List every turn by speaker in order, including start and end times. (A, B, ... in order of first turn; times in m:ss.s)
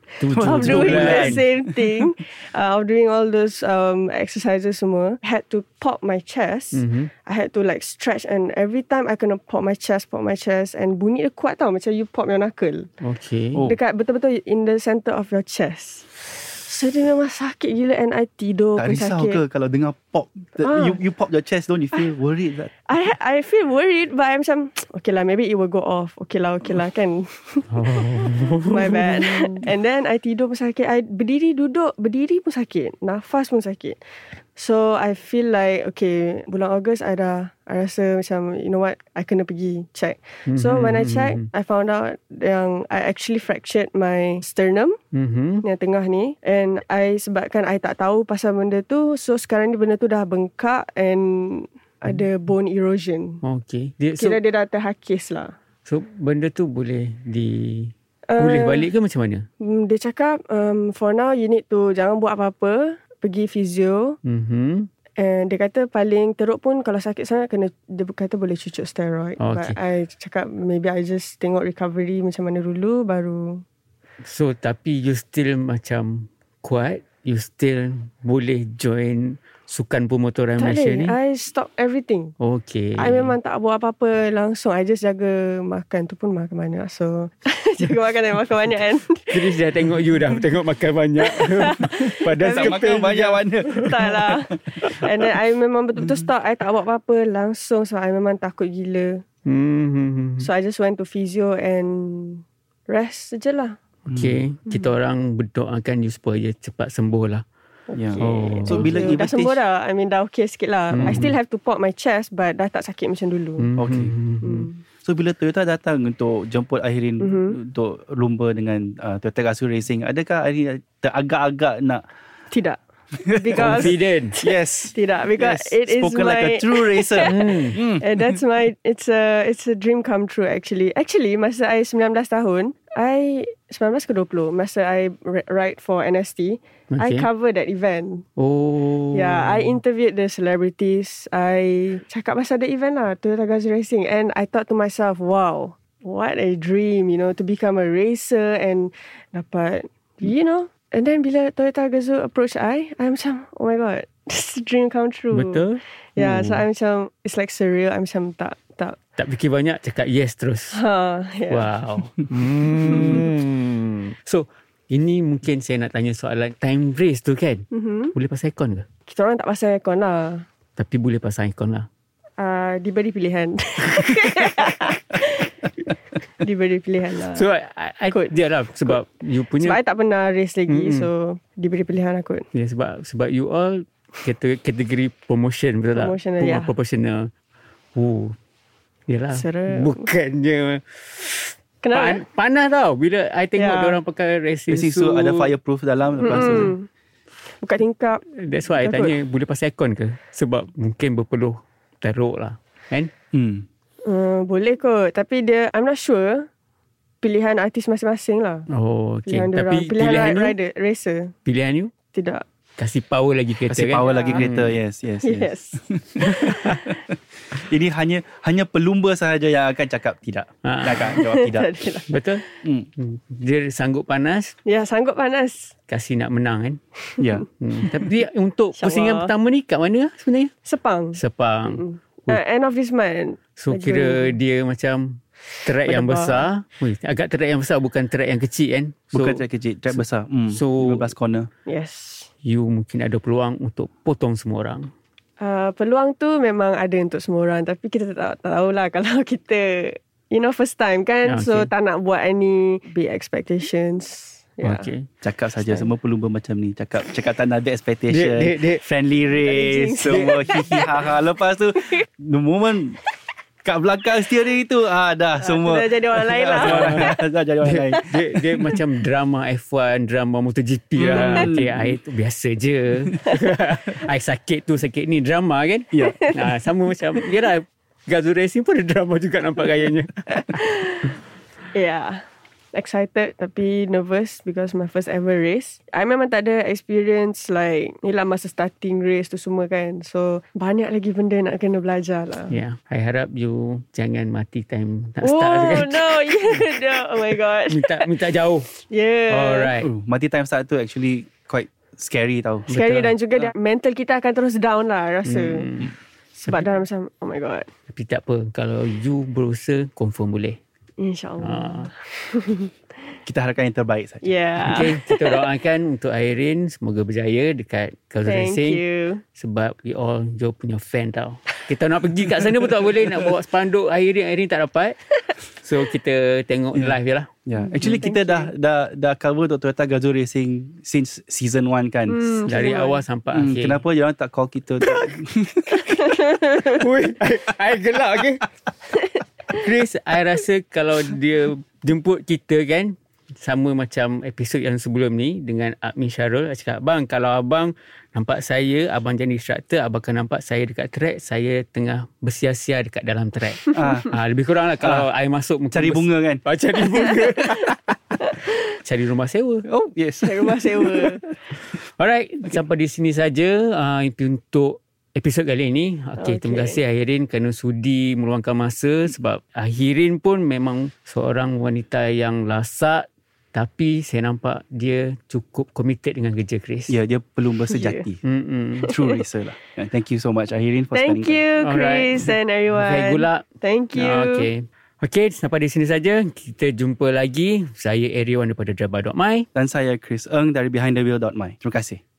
0:00.2-0:01.4 A
0:00.3-0:02.0 B
0:00.3-0:12.9 C
0:06.7-0:07.1 A
0:13.0-0:13.6 A
0:13.6-0:19.4 C
0:18.8-0:22.7 B
0:20.6-0:21.0 C
0:22.9-0:34.0 C
0:27.7-0:29.6 A
0:34.5-0:45.0 C
0:40.5-0:41.4 A
0:45.1-0:45.6 A
0:45.6-0:53.4 C
0:53.4-0:54.4 A
0:54.2-0:55.5 C
0:55.8-0:59.4 A
0:58.3-0:58.8 C
0:59.6-1:04.2 C
1:04.2-1:04.9 A
1:05.2-1:13.6 C
1:09.4-1:09.8 A
1:14.2-1:21.2 A
1:20.6-1:22.3 C
1:22.4-1:23.4 A
1:23.0-1:29.5 C
1:29.3-1:33.4 A
1:31.2-1:39.2 C
1:32.5-1:35.1 B
1:39.4-1:40.5 A
1:40.4-1:43.8 C
1:44.1-1:44.4 B
1:44.1-1:47.4 A
1:47.9-1:53.7 C
1:47.9-1:49.6 B
1:48.2-1:49.1 A
1:50.9-1:51.3 A
1:51.0-1:51.3 B
1:53.6-1:54.7 A
1:53.8-1:54.1 B
1:54.4-1:54.8 C
1:55.0-2:02.0 B
1:57.2-1:57.6 C
2:02.5-2:04.0 C
2:03.3-2:08.4 B
2:03.6-2:04.4 A
2:04.9-2:18.2 C
2:07.2-2:07.8 A
2:16.9-2:17.3 A
2:18.4-2:19.8 A
2:19.1-2:35.6 C
2:35.3-2:36.6 A
2:36.2-2:39.0 C
2:39.2-2:40.8 A
2:40.7-2:41.7 C
2:41.5-2:48.9 A
2:42.9-2:43.2 C
2:47.7-2:48.1 C
2:49.0-2:50.4 C
2:50.8-2:51.9 A
2:52.4-2:55.5 C
2:56.4-2:57.5 C
2:57.3-2:59.8 A
2:59.6-3:02.5 C
3:00.7-3:01.1 A
3:02.5-3:07.3 A
3:05.9-3:06.7 C
3:07.9-3:08.4 A
3:09.1-3:15.5 A
3:09.3-3:10.1 C
3:11.8-3:12.2 C
3:13.6-3:14.0 C
3:14.7-3:16.7 B
3:16.2-3:16.9 C
3:16.3-3:16.7 A
3:17.6-3:18.2 C
3:18.3-3:23.1 A
3:18.8-3:19.1 C
3:23.3-3:23.6 B
3:24.0-3:26.5 C
3:27.2-3:28.7 C
3:28.7-3:30.6 A
3:29.3-3:31.3 C
3:31.4-3:31.9 A
3:32.1-3:32.4 C
3:32.8-3:34.8 A
3:33.7-3:41.7 B
3:34.0-3:34.5 C
3:35.2-3:35.8 C
3:36.2-3:36.8 A
3:40.6-3:41.2 A
3:41.2-3:42.1 C
3:42.1-3:42.4 A
3:43.0-3:44.5 A
3:44.6-3:45.7 C
3:45.9-3:46.8 A
3:47.2-3:47.4 B
3:47.6-3:50.5 A
3:48.8-3:49.3 C
3:50.6-3:54.4 C
3:51.2-3:52.4 A
3:53.6-3:59.4 A
3:55.8-3:56.5 C
3:59.1-4:01.5 B
4:00.5-4:01.1 A
4:01.6-4:02.3 C
4:02.4-4:04.9 A
4:05.4-4:14.9 C
4:11.2-4:11.7 A
4:14.6-4:15.0 A
4:15.2-4:23.0 B
4:18.1-4:18.8 A
4:19.4-4:20.8 C
4:23.6-4:28.8 B
4:25.4-4:27.1 C
4:26.6-4:27.1 A
4:27.6-4:40.2 A
4:31.0-4:32.0 B
4:31.1-4:31.4 C
4:35.9-4:36.3 B
4:40.3-4:41.1 C
4:41.7-4:52.6 C
4:52.5-4:56.7 A
4:55.2-4:58.1 C
4:57.3-4:58.7 A
4:58.8-4:59.7 C
4:59.3-4:59.9 A
4:59.8-5:02.7 B
5:02.7-5:03.1 A
5:02.7-5:05.7 C
5:05.2-5:05.9 A
5:06.4-5:07.7 C
5:07.9-5:10.6 A
5:11.0-5:12.7 C
5:11.4-5:11.9 A
5:13.2-5:14.3 B
5:14.2-5:15.4 C
5:14.6-5:18.8 A
5:18.2-5:19.2 C
5:19.4-5:27.3 A
5:26.7-5:32.2 B
5:27.6-5:28.5 C
5:32.1-5:33.0 C
5:32.5-5:33.8 A
5:33.3-5:35.9 B
5:35.8-5:36.8 C
5:36.6-5:38.4 A
5:39.5-5:59.6 A
5:53.7-5:54.1 B
5:54.8-5:55.1 B
5:55.7-5:56.4 B
5:59.7-6:01.1 B
6:00.2-6:01.2 C
6:01.8-6:17.0 A
6:06.2-6:06.8 C
6:16.9-6:18.2 B
6:17.7-6:18.0 C
6:18.2-6:19.0 A
6:18.8-6:21.4 B
6:20.9-6:24.5 C
6:21.6-6:23.4 A
6:24.0-6:29.5 A
6:29.5-6:32.0 B